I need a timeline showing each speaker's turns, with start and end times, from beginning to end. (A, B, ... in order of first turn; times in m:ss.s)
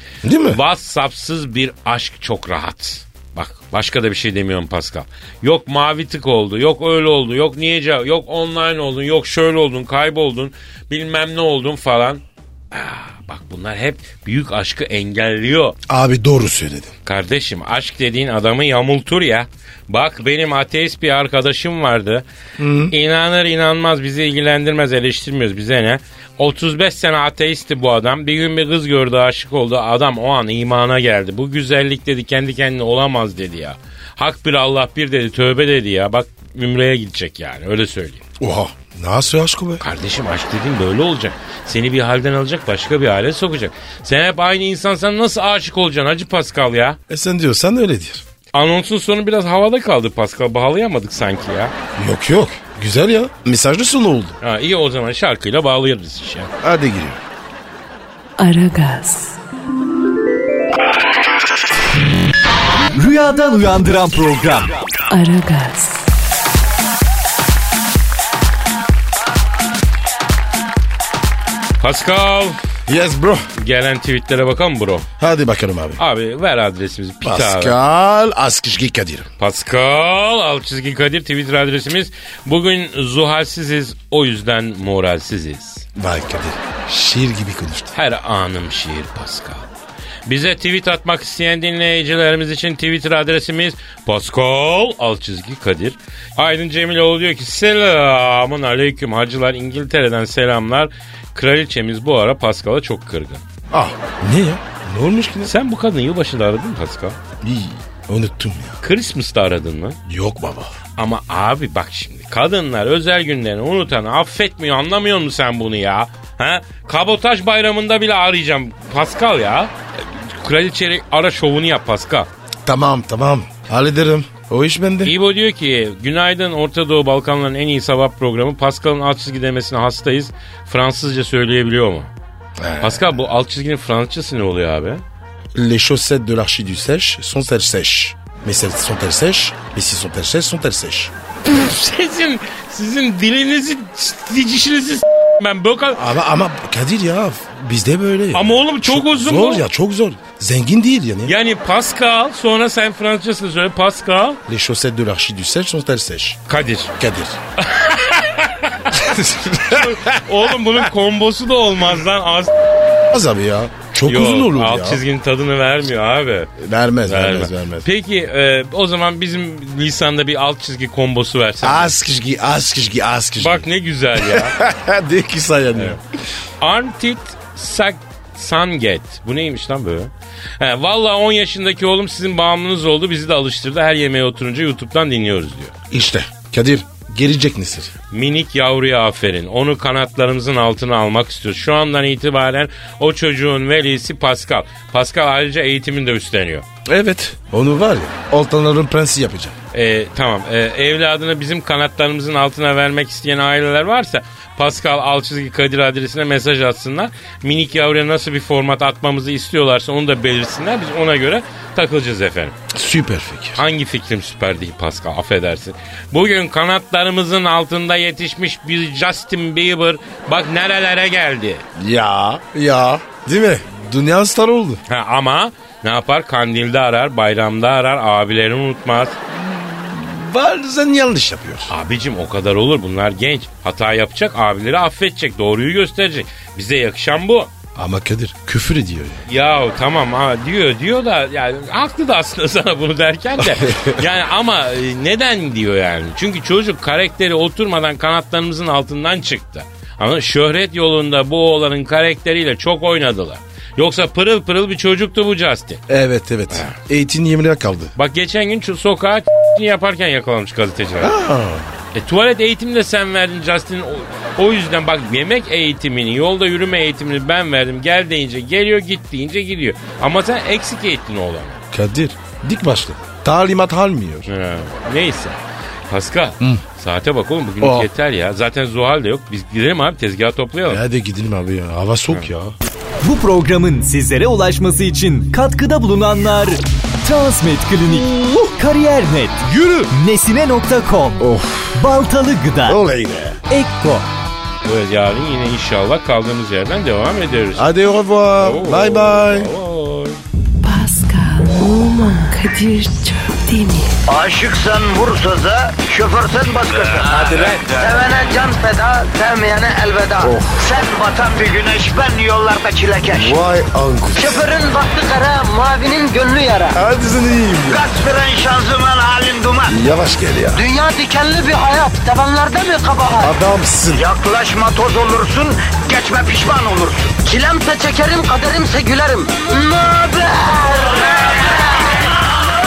0:00.2-0:00.6 A
0:00.5-0:15.8 B
0:15.9-0:17.0 A
0:17.0-0:22.2 B
0:22.6-0:22.9 A
0:22.9-0:38.2 B
0:38.4-0:39.8 A
0:39.8-0:47.0 B
0:47.1-0:48.2 A
0:48.5-0:51.7 B
0:52.0-0:54.4 A
0:54.4-0:56.5 B
0:56.6-0:57.2 A
0:58.4-0:59.4 C
1:02.9-1:04.8 D
1:05.1-1:06.1 C
1:11.8-1:12.6 B
1:12.9-1:13.5 A
1:13.6-1:15.1 B
1:15.2-1:16.0 A
1:16.0-1:17.8 B
1:17.2-1:19.3 A
1:19.4-1:25.9 B
1:26.0-1:27.9 A
1:27.9-1:29.7 B
1:30.3-1:43.4 B
1:43.7-1:45.5 A
1:45.4-1:47.2 B
1:47.4-1:48.8 A
1:48.8-1:50.0 B
1:50.1-1:50.8 A
1:51.0-2:02.3 B
2:02.6-2:05.2 A
2:05.0-2:12.1 B
2:12.6-2:13.2 A
2:12.8-2:15.0 B
2:15.6-2:21.1 A
2:21.4-2:26.0 B
2:26.0-2:31.3 A
2:28.3-2:29.6 B
2:31.2-2:34.4 B
2:34.5-2:36.4 A
2:36.5-2:36.9 B
2:37.0-2:37.4 A
2:37.6-2:42.7 B
2:38.9-2:40.2 A
2:43.1-2:45.0 A
2:44.0-2:46.5 B
2:46.6-2:47.9 A
2:47.0-2:52.0 B
2:51.6-2:56.0 A
2:53.4-2:54.6 B
2:56.6-3:05.8 B
3:05.9-3:07.9 A
3:08.1-3:16.6 B
3:16.8-3:19.6 A
3:19.7-3:32.6 B
3:32.7-3:33.6 A
3:33.6-3:41.6 B
3:41.8-3:44.8 A
3:44.9-3:49.2 B
3:49.3-3:51.7 A
3:51.7-3:57.5 B
3:57.8-3:59.2 A
3:59.3-4:15.8 B
4:03.4-4:04.0 A
4:15.9-4:17.9 A
4:16.5-4:16.8 B
4:18.0-4:21.1 B
4:21.0-4:21.7 A
4:22.0-4:31.6 B
4:31.7-4:34.3 A
4:34.3-4:40.8 B
4:37.6-4:37.9 A
4:40.7-4:42.6 A
4:43.0-4:52.8 D
4:51.2-4:51.8 A
4:52.7-4:53.4 A
4:53.5-4:54.1 D
4:54.6-4:57.7 B
4:57.6-4:59.5 A
4:58.4-5:00.2 B
5:00.6-5:04.0 C
5:04.1-5:13.4 E
5:07.2-5:07.6 B
5:10.2-5:10.7 A
5:13.1-5:14.4 A
5:14.1-5:16.8 E
5:16.7-5:17.9 A
5:17.7-5:19.8 E
5:19.7-5:20.6 A
5:20.5-5:23.3 E
5:23.2-5:24.1 A
5:23.9-5:31.8 E